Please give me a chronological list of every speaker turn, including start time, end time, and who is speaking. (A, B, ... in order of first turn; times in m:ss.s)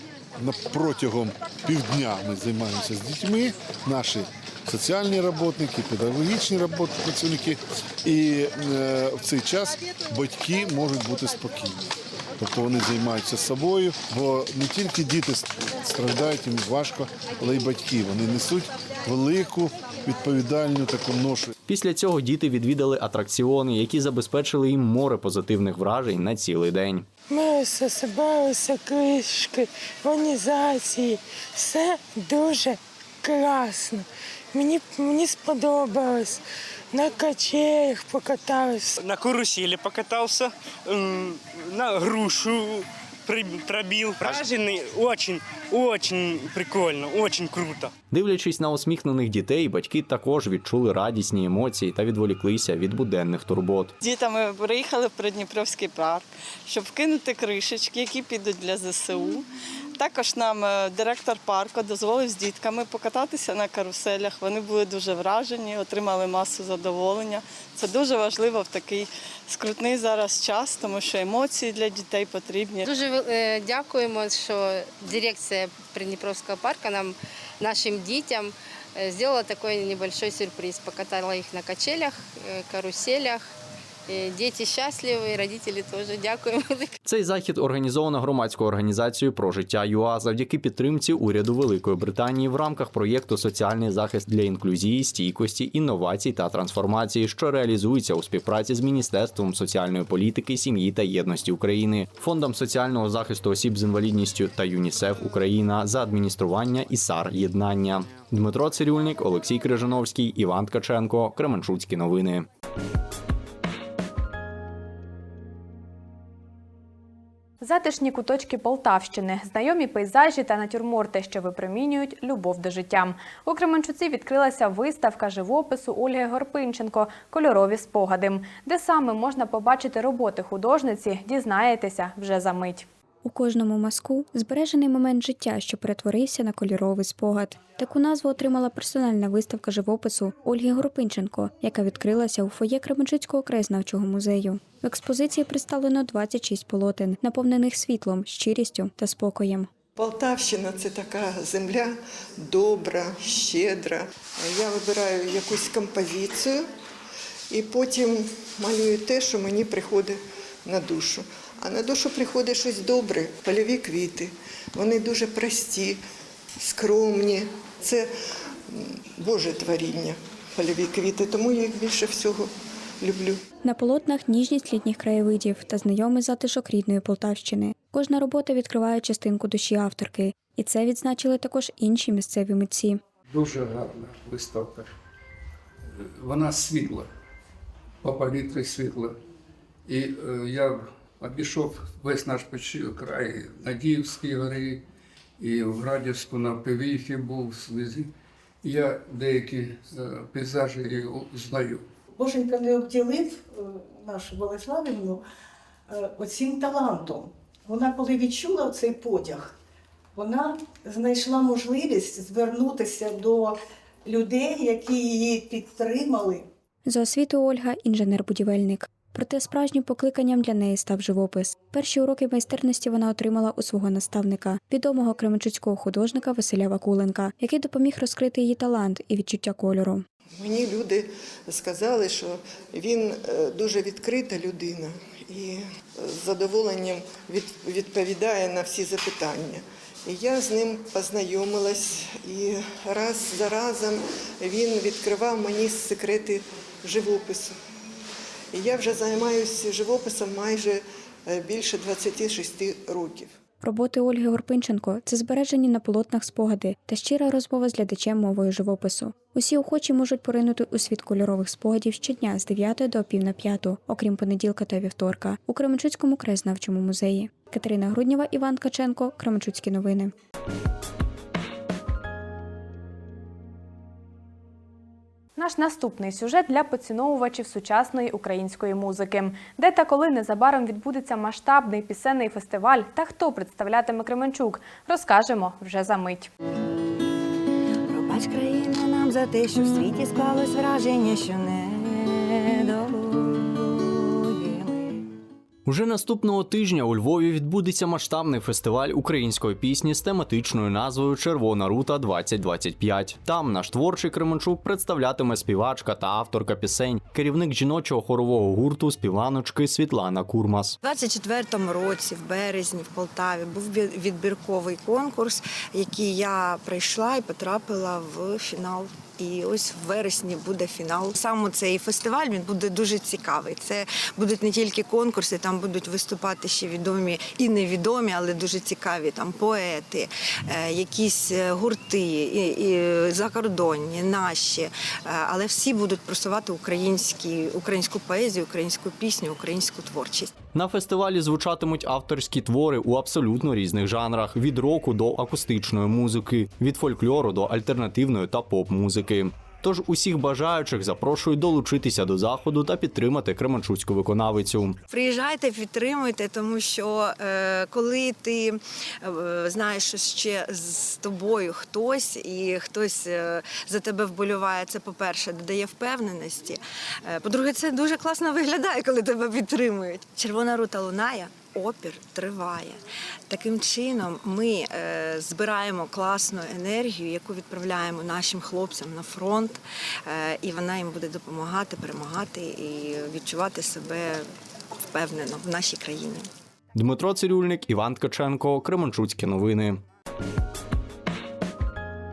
0:00.4-0:21.5 A
0:21.7-0:27.0 B
0:27.3-0:34.0 C
0:34.5-0:36.4 C
0:36.9-0:39.0 C
0:39.0-0:47.9 D
0:48.1-0:53.9 B
0:54.1-0:59.4 E
1:00.0-1:12.9 E
1:12.8-1:23.4 F
1:24.1-1:26.9 F
1:27.0-1:52.5 B
1:57.6-2:12.8 G
2:13.2-2:29.7 H
2:30.0-2:36.6 I
2:37.5-2:46.0 I
2:46.6-2:48.1 I
2:48.7-2:52.5 I
2:53.0-2:53.4 I
2:53.6-3:03.0 H
3:03.3-3:04.9 J
3:06.2-3:07.1 J
3:08.0-3:09.1 J
3:09.9-3:14.8 J
3:15.4-3:18.1 J
3:18.6-3:21.8 J
3:22.2-3:25.2 K
3:25.9-3:29.5 K
3:30.2-3:36.4 K
3:36.8-3:50.0 H
3:50.4-4:07.5 I
4:08.5-4:13.3 I
4:13.6-4:30.1 H
4:35.4-4:46.3 G
4:47.9-4:55.0 L
4:55.6-5:10.8 B
5:10.8-5:40.3 L
5:40.5-5:54.8 B
5:54.9-6:24.2 L
6:24.9-6:26.3 L
6:26.7-6:29.8 B